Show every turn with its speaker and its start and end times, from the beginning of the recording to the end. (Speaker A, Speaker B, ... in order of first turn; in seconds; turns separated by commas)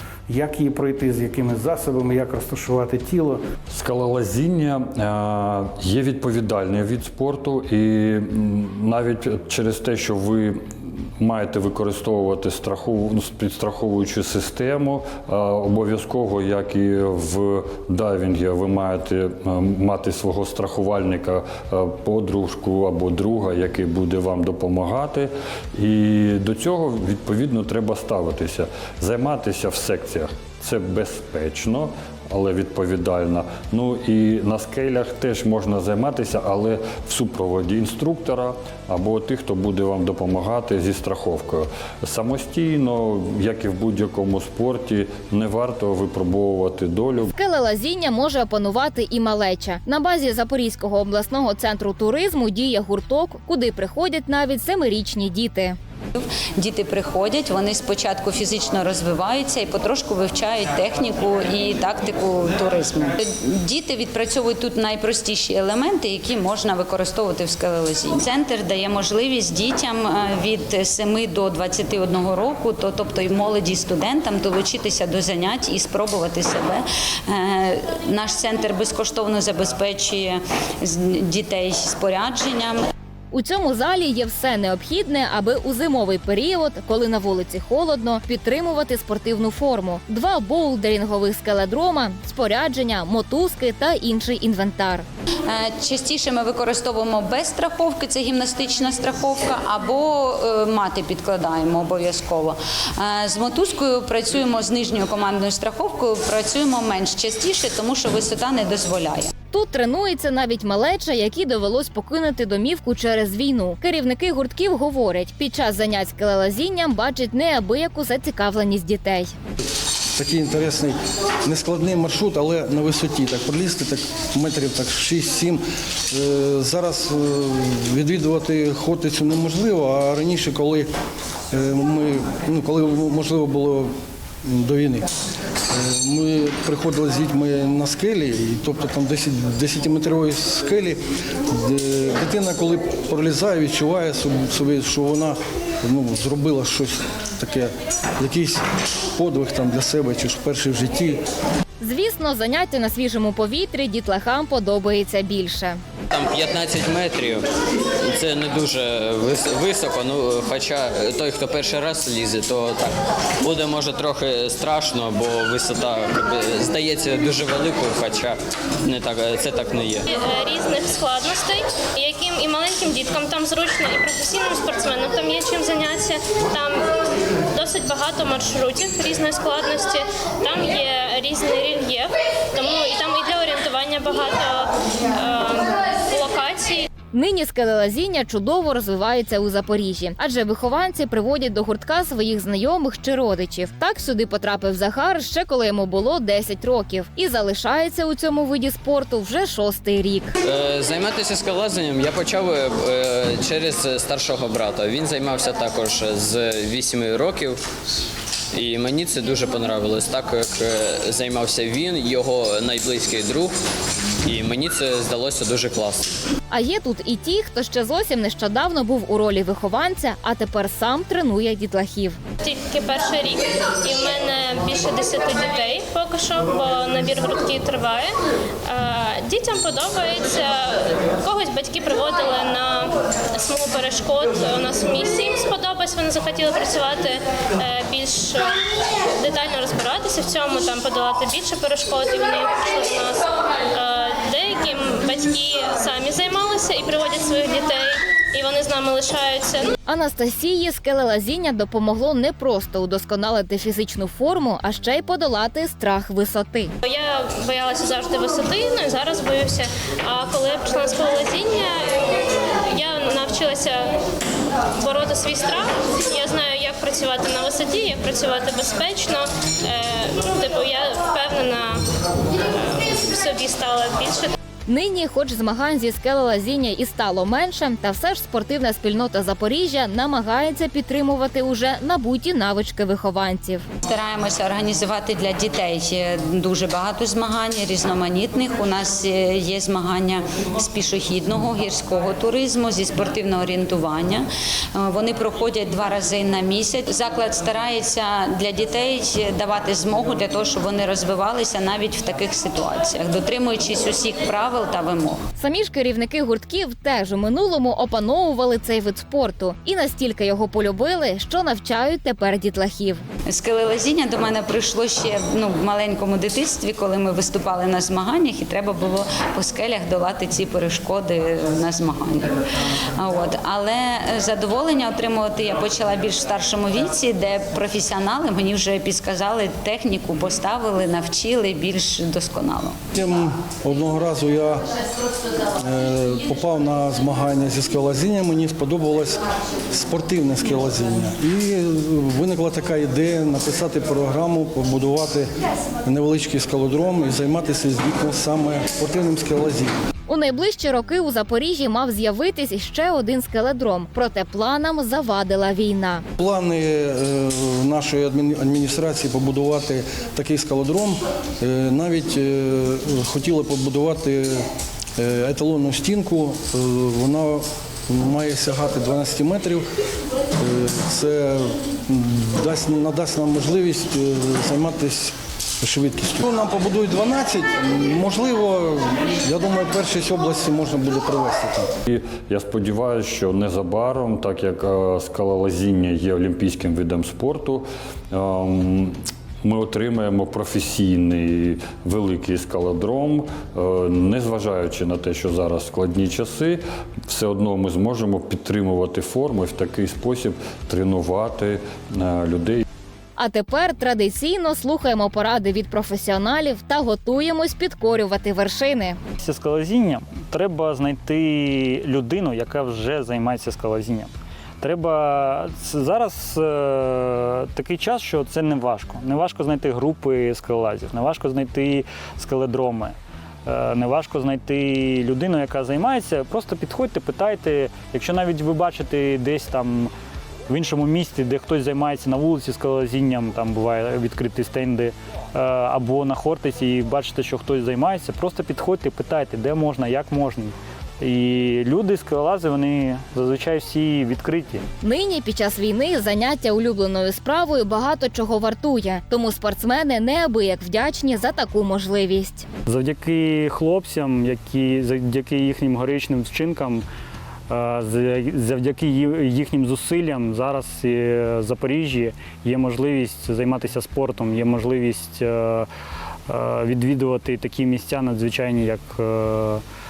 Speaker A: 0.3-3.4, Speaker B: 3.7-47.3, Speaker C: 47.4-55.8, Speaker D: 56.1-82.8, Speaker C: 83.3-95.0, Speaker D: 95.5-109.3, Speaker C: 109.5-119.3, Speaker E: 120.2-130.9, Speaker E: 131.5-133.9, Speaker E: 134.4-135.1, Speaker E: 135.7-151.2, Speaker C: 151.8-155.8, Speaker F: 156.1-157.4, Speaker F: 158.0-170.0, Speaker G: 170.1-177.0, Speaker G: 177.5-186.9, Speaker C: 187.1-200.3, Speaker F: 200.4-207.6, Speaker F: 208.5-213.6, Speaker F: 214.2-216.1, Speaker C: 216.5-222.2, Speaker G: 222.4-228.1, Speaker G: 228.7-249.7, Speaker C: 249.8-256.7, Speaker G: 256.8-264.0, Speaker G: 264.7-271.8, Speaker G: 272.4-274.3, Speaker C: 274.7-283.7, Speaker D: 283.8-305.2, Speaker C: 305.4-313.1, Speaker D: 313.2-322.4, Speaker D: 322.9-332.8, Speaker E: 332.9-334.6, Speaker E: 335.6-345.3, Speaker E: 345.8-349.7, Speaker C: 350.1-356.1, Speaker E: 356.2-369.6, Speaker E: 370.4-381.7, Speaker B: 381.9-402.6, Speaker C: 403.2-409.0, Speaker H: 409.2-429.9, Speaker H: 430.5-444.6, Speaker C: 444.8-452.4, Speaker H: 452.6-456.8, Speaker H: 457.5-465.7, Speaker H: 466.3-469.6